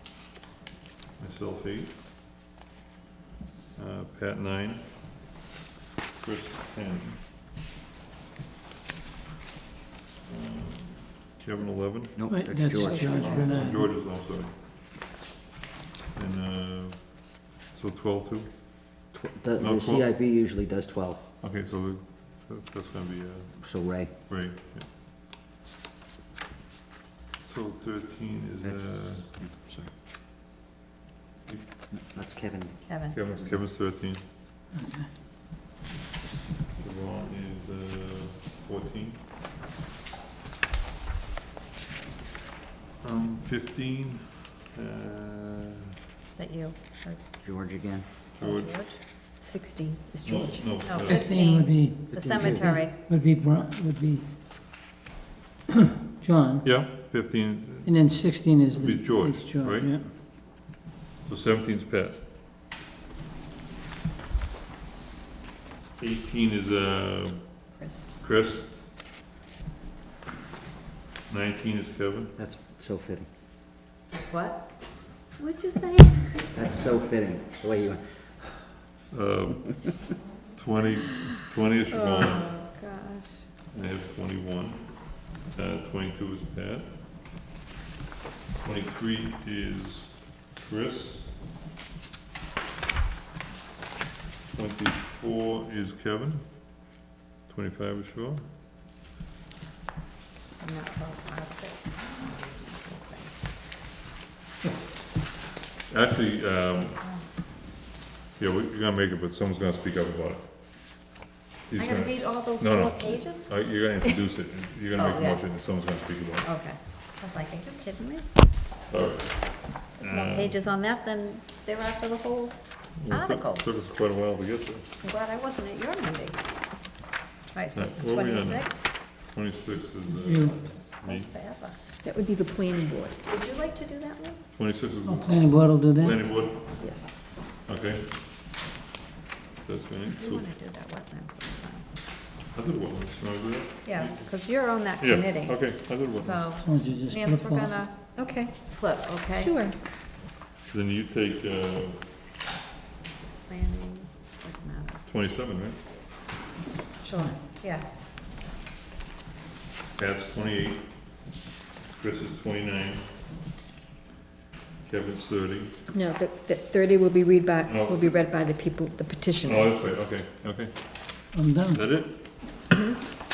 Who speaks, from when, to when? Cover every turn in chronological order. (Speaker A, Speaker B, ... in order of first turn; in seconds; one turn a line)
Speaker A: 1.2-2.0
Speaker A: 3.7-4.9
Speaker A: 6.2-7.2
Speaker A: 10.2-12.2
Speaker B: 12.2-13.3
Speaker C: 12.3-13.9
Speaker D: 12.9-13.4
Speaker A: 13.0-14.5
Speaker E: 13.0-13.5
Speaker A: 16.1-19.0
Speaker B: 19.1-21.2
Speaker A: 19.6-20.1
Speaker A: 21.4-24.9
Speaker B: 23.6-24.1
Speaker A: 27.4-29.2
Speaker B: 28.6-29.9
Speaker B: 31.9-33.6
Speaker E: 32.8-33.2
Speaker A: 33.1-34.2
Speaker C: 34.7-35.1
Speaker A: 36.8-39.2
Speaker A: 43.0-45.8
Speaker E: 46.3-47.2
Speaker B: 47.4-48.0
Speaker E: 48.3-49.3
Speaker A: 48.4-48.8
Speaker D: 49.4-50.7
Speaker A: 50.2-51.2
Speaker E: 50.8-53.0
Speaker C: 50.9-54.3
Speaker B: 52.3-52.7
Speaker C: 56.0-56.9
Speaker A: 56.6-58.0
Speaker C: 57.8-60.1
Speaker A: 58.7-59.9
Speaker A: 61.2-62.2
Speaker A: 66.0-68.7
Speaker E: 67.8-68.1
Speaker A: 71.3-72.3
Speaker B: 72.4-73.3
Speaker E: 74.1-76.7
Speaker B: 76.5-78.5
Speaker A: 79.1-82.5
Speaker E: 81.9-83.5
Speaker A: 83.7-86.9
Speaker A: 88.6-91.3
Speaker A: 94.5-96.4
Speaker A: 97.5-98.4
Speaker E: 100.6-103.3
Speaker A: 105.9-107.0
Speaker E: 107.0-107.3
Speaker A: 108.4-110.5
Speaker A: 111.7-116.5
Speaker E: 111.8-114.2
Speaker E: 114.9-115.4
Speaker E: 116.4-118.3
Speaker A: 118.9-120.6
Speaker E: 120.0-123.8
Speaker A: 123.0-124.9
Speaker E: 125.0-126.4
Speaker E: 127.5-128.9
Speaker A: 127.7-131.3
Speaker C: 130.2-130.6
Speaker E: 130.7-131.8
Speaker D: 132.0-133.2
Speaker E: 133.2-134.4
Speaker A: 134.6-137.1
Speaker C: 135.0-136.4
Speaker D: 136.8-137.1
Speaker A: 137.7-138.1
Speaker A: 139.6-140.5
Speaker E: 140.2-141.8
Speaker A: 142.5-146.5
Speaker E: 143.8-149.7
Speaker C: 146.6-147.8
Speaker D: 149.4-149.7
Speaker A: 150.7-152.0
Speaker E: 153.5-155.0
Speaker A: 155.1-155.9
Speaker E: 157.0-157.9
Speaker C: 157.1-157.4
Speaker A: 159.9-160.9
Speaker A: 161.9-163.1
Speaker A: 164.8-165.7
Speaker D: 165.9-169.7
Speaker A: 167.6-168.1
Speaker A: 169.4-172.2
Speaker C: 171.3-171.8